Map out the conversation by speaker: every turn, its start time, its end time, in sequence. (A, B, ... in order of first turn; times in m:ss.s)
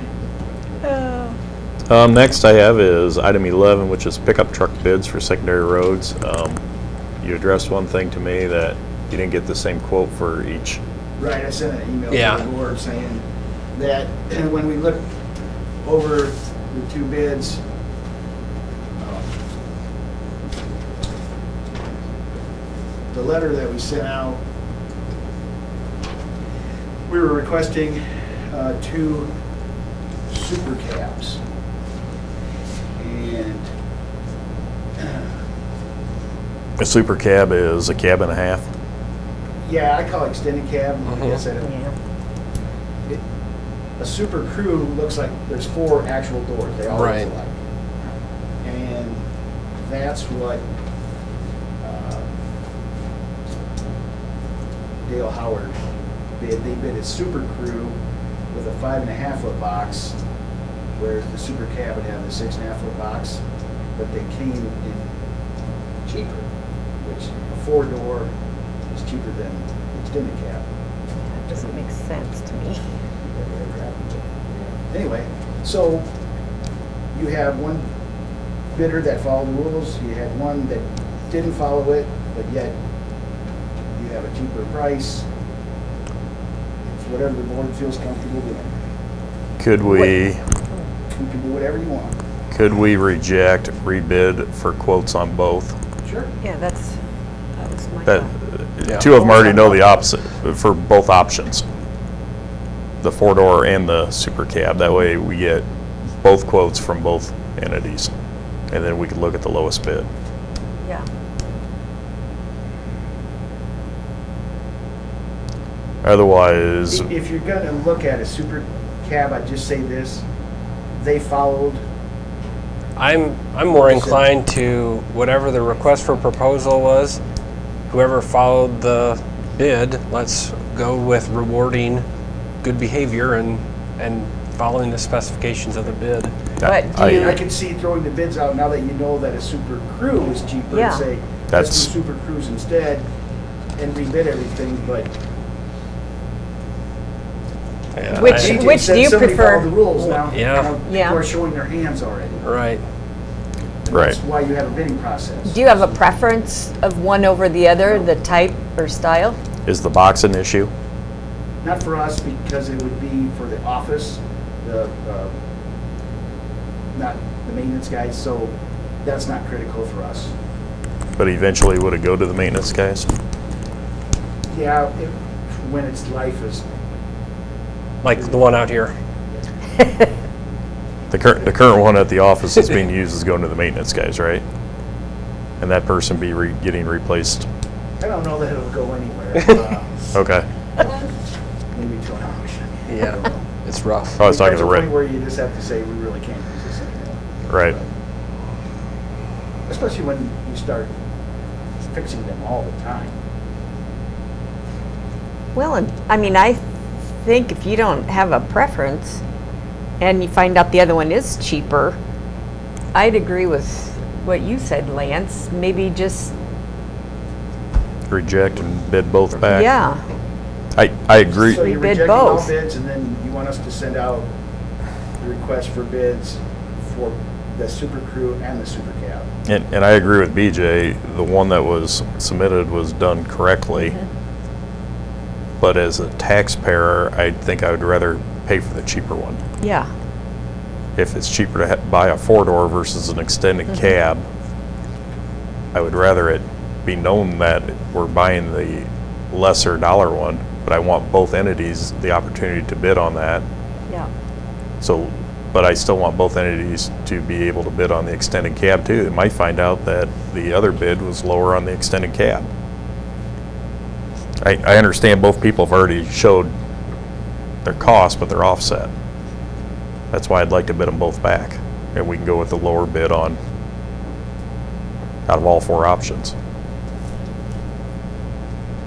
0:00.8-0:01.3 A
0:01.9-0:06.6 B
0:07.2-0:10.8 B
0:11.2-0:15.1 C
0:12.1-0:12.4 D
0:15.8-0:17.6 C
0:19.0-0:19.3 C
0:23.1-0:24.4 C
0:27.1-0:29.3 C
0:30.3-0:31.4 C
0:33.0-0:33.6 C
0:35.0-0:35.3 C
0:36.8-0:38.6 B
0:39.6-0:41.7 C
0:41.1-0:41.4 D
0:41.6-0:41.9 A
0:44.0-0:47.5 C
0:46.9-0:47.3 D
0:48.6-0:49.2 C
0:49.9-0:50.6 C
0:51.8-0:52.3 C
0:55.0-0:55.7 C
0:56.4-0:58.0 C
0:58.5-1:00.2 C
1:01.0-1:03.4 C
1:04.0-1:05.1 C
1:06.1-1:06.5 C
1:07.0-1:08.3 C
1:08.9-1:10.6 C
1:11.3-1:12.8 A
1:13.3-1:16.1 C
1:17.1-1:17.9 C
1:18.7-1:22.8 C
1:24.0-1:25.2 C
1:26.9-1:28.7 C
1:29.6-1:30.4 B
1:31.1-1:32.2 C
1:32.5-1:35.7 B
1:36.0-1:36.3 C
1:36.4-1:37.0 A
1:37.6-1:38.3 A
1:38.1-1:41.6 B
1:39.1-1:39.9 C
1:43.0-1:45.6 B
1:46.2-1:48.1 B
1:48.7-1:50.1 B
1:56.0-1:57.1 B
1:56.9-2:00.2 C
2:01.0-2:01.8 C
2:03.0-2:07.2 D
2:03.7-2:04.3 C
2:07.9-2:12.0 D
2:12.6-2:16.4 D
2:16.6-2:17.4 B
2:16.6-2:17.4 A
2:17.1-2:23.0 C
2:20.7-2:21.1 A
2:21.5-2:21.9 B
2:23.8-2:25.1 C
2:28.0-2:28.6 D
2:28.1-2:29.8 A
2:28.2-2:32.5 C
2:30.0-2:30.7 D
2:30.8-2:31.2 A
2:32.4-2:32.8 D
2:33.8-2:36.0 C
2:33.9-2:34.2 B
2:35.4-2:39.4 A
2:39.7-2:40.7 B
2:41.6-2:45.3 C
2:46.9-2:50.3 C
2:51.2-2:53.1 B
2:54.5-2:56.6 C
2:58.0-2:58.9 D
2:58.1-2:58.7 C
3:01.1-3:04.4 B
3:05.6-3:07.5 B
3:08.0-3:10.1 C
3:10.1-3:10.5 B
3:11.7-3:13.4 C
3:12.9-3:14.2 D
3:14.2-3:14.9 B
3:14.2-3:17.9 C
3:17.5-3:17.8 B
3:19.7-3:20.9 C
3:21.8-3:23.2 C
3:25.6-3:26.6 A
3:27.2-3:29.2 A
3:30.0-3:32.0 A
3:32.9-3:36.3 A
3:38.1-3:39.7 B
3:39.5-3:40.0 A
3:40.8-3:41.6 B
3:41.4-3:44.3 C
3:41.5-3:42.5 A
3:45.2-3:49.3 C
3:49.5-3:54.0 B
3:55.6-3:59.4 B
3:59.6-3:59.9 A
4:01.0-4:04.2 B
4:05.7-4:13.4 B
4:14.8-4:22.5 B
4:24.4-4:26.5 B
4:27.6-4:28.9 B
4:30.1-4:33.4 B
4:35.3-4:36.3 B